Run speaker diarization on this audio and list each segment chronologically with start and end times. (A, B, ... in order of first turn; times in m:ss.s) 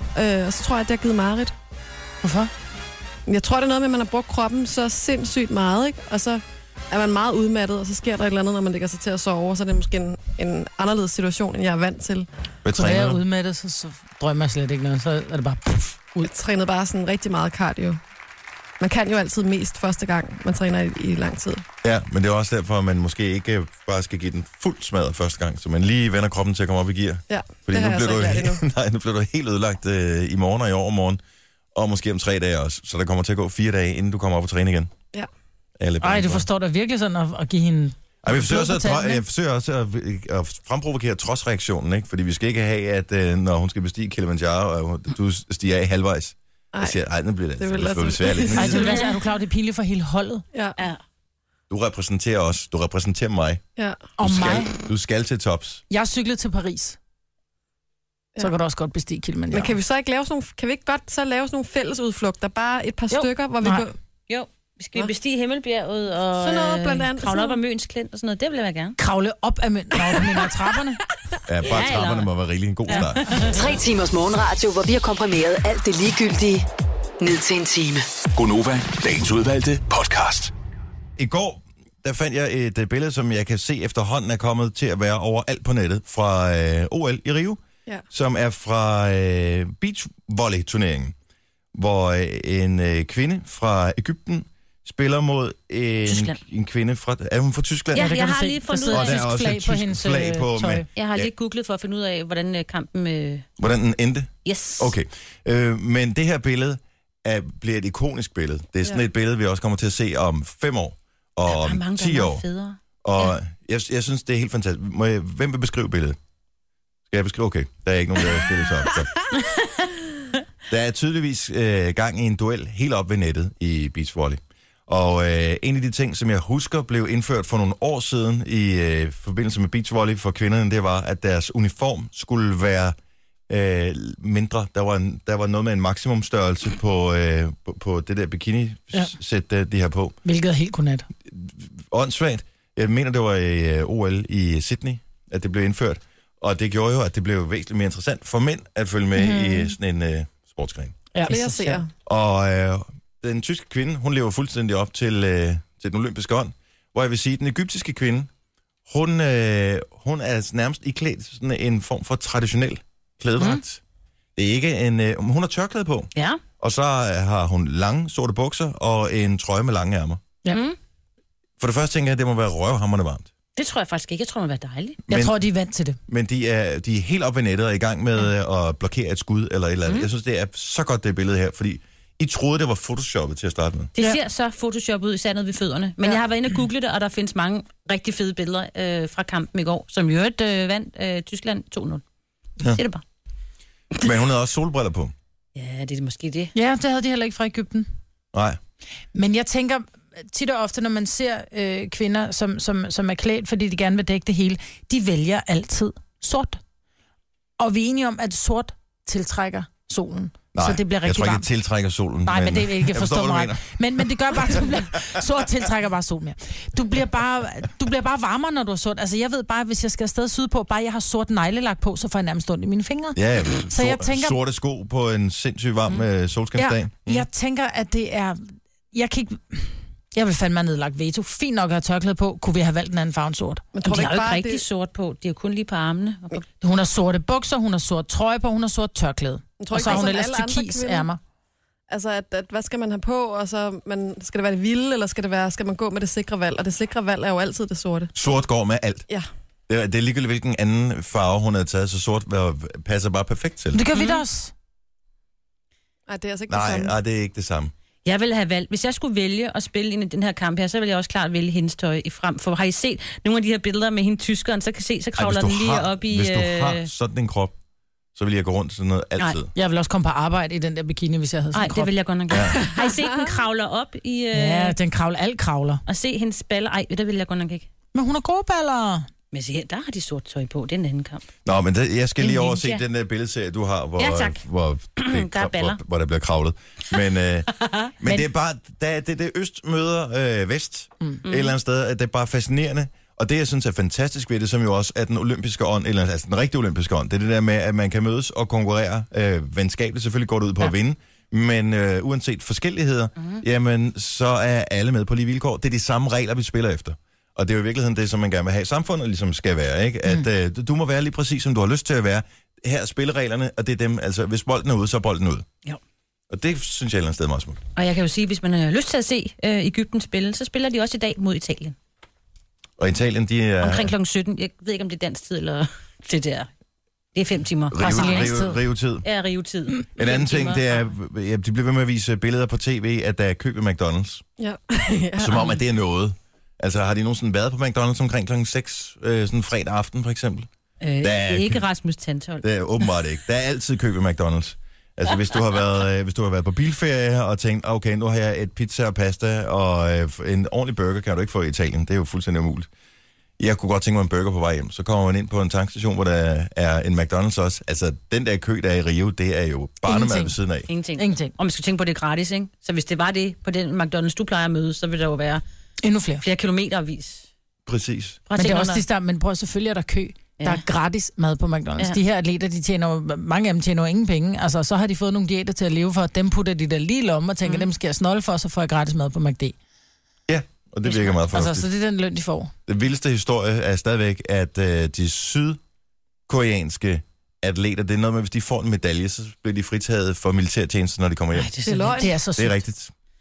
0:00.2-0:01.5 A
0:02.2-0:02.5 B
0:03.3-0:12.3 A
0:12.6-0:13.2 C
0:12.7-0:16.3 B
0:16.2-0:18.0 A
0:18.8-0:21.6 A
0:21.8-0:31.2 C
0:27.3-0:28.6 A
0:31.8-0:34.9 C
0:35.8-0:36.5 C
0:36.0-0:39.2 B
0:38.2-0:48.9 C
0:46.7-0:47.0 A
0:47.6-0:49.0 A
0:48.6-0:50.4 B
0:48.8-0:49.1 D
0:50.5-0:50.8 A
0:51.7-0:53.6 C
0:53.8-0:54.1 A
0:54.2-0:54.7 B
0:54.2-0:55.8 C
0:55.9-0:57.0 B
0:58.4-0:59.8 B
0:59.5-1:04.0 A
1:04.3-1:09.0 D
1:06.4-1:07.6 A
1:09.0-1:11.0 B
1:10.0-1:10.3 A
1:11.5-1:13.3 C
1:11.7-1:12.3 D
1:12.9-1:13.7 D
1:13.5-1:16.7 E
1:17.2-1:18.1 E
1:18.3-1:20.5 F
1:21.2-1:31.1 C
1:31.7-1:38.1 C
1:36.1-1:36.4 D
1:38.0-1:39.2 D
1:38.0-1:40.9 B
1:38.9-1:41.3 C
1:41.0-1:43.5 D
1:43.6-1:52.4 C
1:44.4-1:44.9 D
1:51.5-1:53.4 D
1:53.0-1:56.2 C
1:57.1-1:59.1 C
1:59.4-1:59.8 D
2:00.7-2:13.0 C
2:13.5-2:20.2 C
2:20.2-2:21.1 B
2:21.3-2:31.0 C
2:29.2-2:29.8 B
2:31.1-2:31.8 B
2:31.3-2:31.9 A
2:32.1-2:38.3 C
2:38.9-2:43.8 C
2:44.4-2:50.2 C
2:46.2-2:46.4 D
2:50.5-2:50.8 D
2:51.6-2:53.3 C
2:53.6-2:55.0 D
2:55.1-2:55.4 C
2:55.1-2:56.0 B
2:56.1-3:03.9 C
3:04.0-3:12.0 D
3:12.7-3:13.0 D
3:14.0-3:15.1 C
3:15.6-3:16.5 D
3:16.6-3:17.9 B
3:18.3-3:18.6 C
3:19.1-3:26.6 B
3:27.6-3:31.5 B
3:30.5-3:34.0 C
3:32.3-3:43.2 B
3:43.2-3:47.3 C
3:43.7-3:44.4 B
3:46.6-3:53.7 B
3:53.7-3:54.6 A
3:53.8-3:56.4 D
3:56.6-4:01.2 B
3:59.6-4:01.1 A
3:59.8-4:00.1 D
4:01.9-4:08.1 A
4:08.2-4:09.1 C
4:09.7-4:13.8 C
4:13.7-4:14.5 B
4:13.9-4:14.2 D
4:16.1-4:17.0 A
4:16.5-4:17.7 C
4:18.0-4:26.9 D
4:25.2-4:27.5 C
4:28.2-4:29.5 C
4:29.6-4:31.9 B
4:31.5-4:34.8 D
4:32.3-4:32.6 C
4:34.3-4:35.8 B
4:35.9-4:37.7 D
4:37.9-4:39.1 B
4:39.3-4:41.2 D
4:41.4-5:15.5 C
4:42.2-4:42.8 D
4:44.0-4:44.4 D
4:45.0-4:45.8 D
4:51.2-4:51.6 D
5:16.3-5:17.6 C
5:17.8-5:21.8 D
5:22.8-5:23.9 C
5:23.6-5:26.5 D
5:27.2-5:28.3 D
5:27.7-5:29.0 C
5:27.8-5:28.6 B
5:29.0-5:30.9 D
5:30.0-5:34.2 C
5:34.4-5:35.6 A
5:35.2-5:40.5 C
5:40.8-5:42.9 D
5:41.0-5:41.6 C
5:42.4-5:52.7 C
5:53.4-6:00.7 C
5:59.9-6:00.4 B
6:00.7-6:05.4 D
6:01.0-6:01.3 B
6:05.8-6:06.2 B
6:06.2-6:07.3 D
6:07.7-6:08.2 C
6:08.3-6:08.8 D
6:08.4-6:19.6 B
6:10.4-6:10.6 D
6:17.4-6:17.7 D
6:20.3-6:21.7 C
6:21.2-6:22.5 B
6:22.7-6:25.6 C
6:26.3-6:31.5 C
6:31.3-6:32.1 D
6:31.6-6:32.1 A
6:31.9-6:32.6 B
6:32.4-6:32.9 C